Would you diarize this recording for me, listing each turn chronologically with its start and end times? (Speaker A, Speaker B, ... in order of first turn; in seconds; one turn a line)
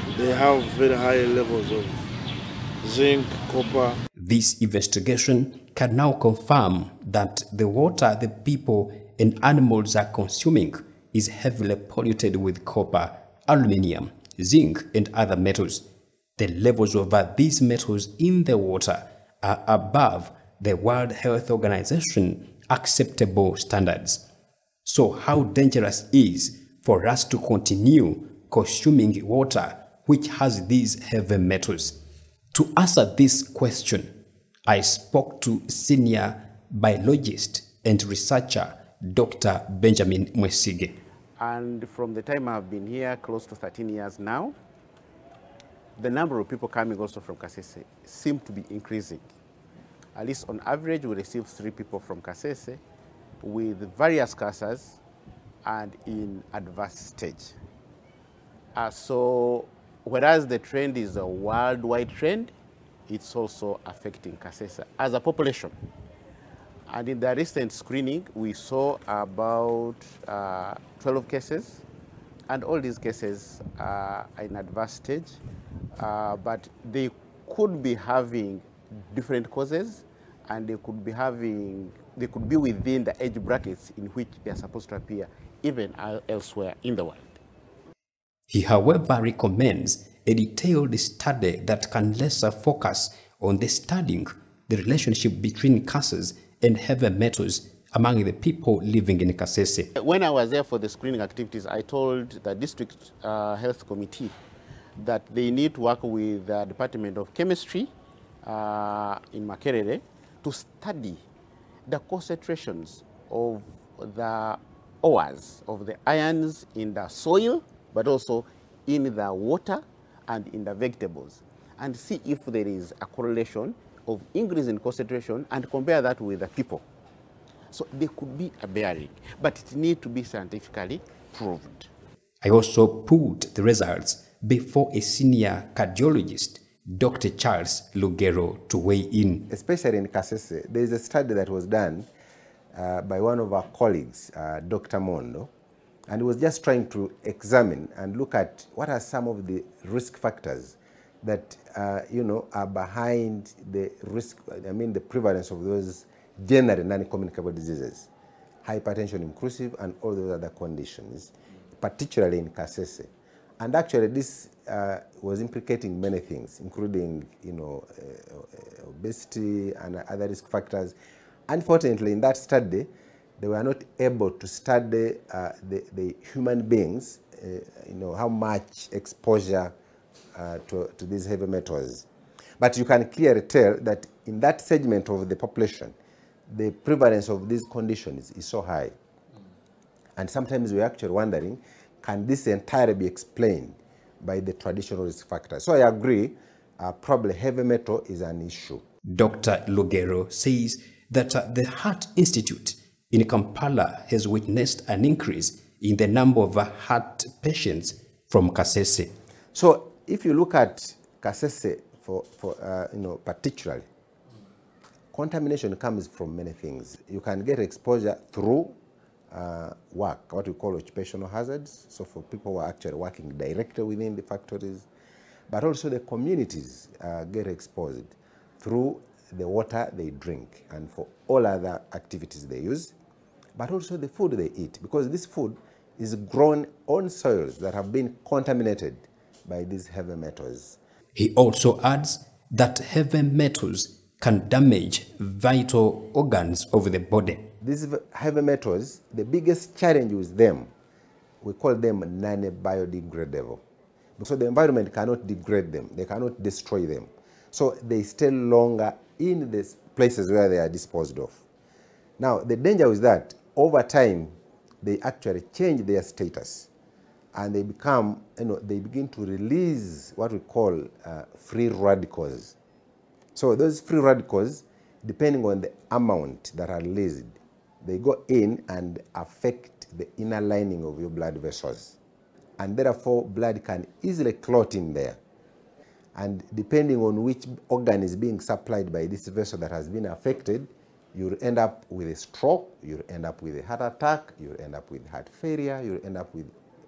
Speaker A: 0.1-2.0
Speaker A: 2.8-4.0
Speaker B: 4.2-15.8
Speaker B: 16.4-24.2
Speaker B: 24.8-31.9
Speaker B: 32.5-34.1
Speaker B: 34.7-41.0
Speaker C: 41.4-44.5
Speaker C: 46.0-49.3
Speaker C: 50.1-52.8
Speaker C: 53.4-55.0
Speaker C: 55.6-57.5
Speaker C: 58.8-62.5
Speaker C: 63.1-65.7
Speaker C: 66.9-71.8
Speaker C: 72.5-75.4
Speaker C: 76.0-87.4
Speaker B: 88.5-99.9
Speaker C: 100.0-104.3
Speaker C: 105.0-107.9
Speaker C: 108.4-111.2
Speaker C: 111.9-126.8
Speaker C: 127.7-131.9
Speaker B: 132.4-139.5
Speaker D: 139.5-142.1
Speaker D: 142.7-145.5
Speaker D: 146.1-158.1
Speaker D: 158.6-163.1
Speaker D: 163.6-170.9
Speaker D: 171.5-179.7
Speaker D: 180.3-182.1
Speaker D: 182.6-185.9
Speaker D: 186.5-188.9
Speaker D: 190.2-198.8
Speaker B: 199.1-209.1
Speaker D: 209.5-213.8
Speaker D: 215.1-218.8
Speaker D: 219.3-224.8
Speaker D: 225.5-232.9
Speaker D: 233.6-240.8
Speaker B: 241.2-247.5
Speaker D: 247.6-250.7
Speaker D: 251.4-253.6
Speaker D: 254.2-261.4
Speaker D: 262.2-266.7
Speaker D: 267.3-272.6
Speaker D: 273.3-281.9
Speaker D: 282.6-285.2
Speaker D: 286.1-296.5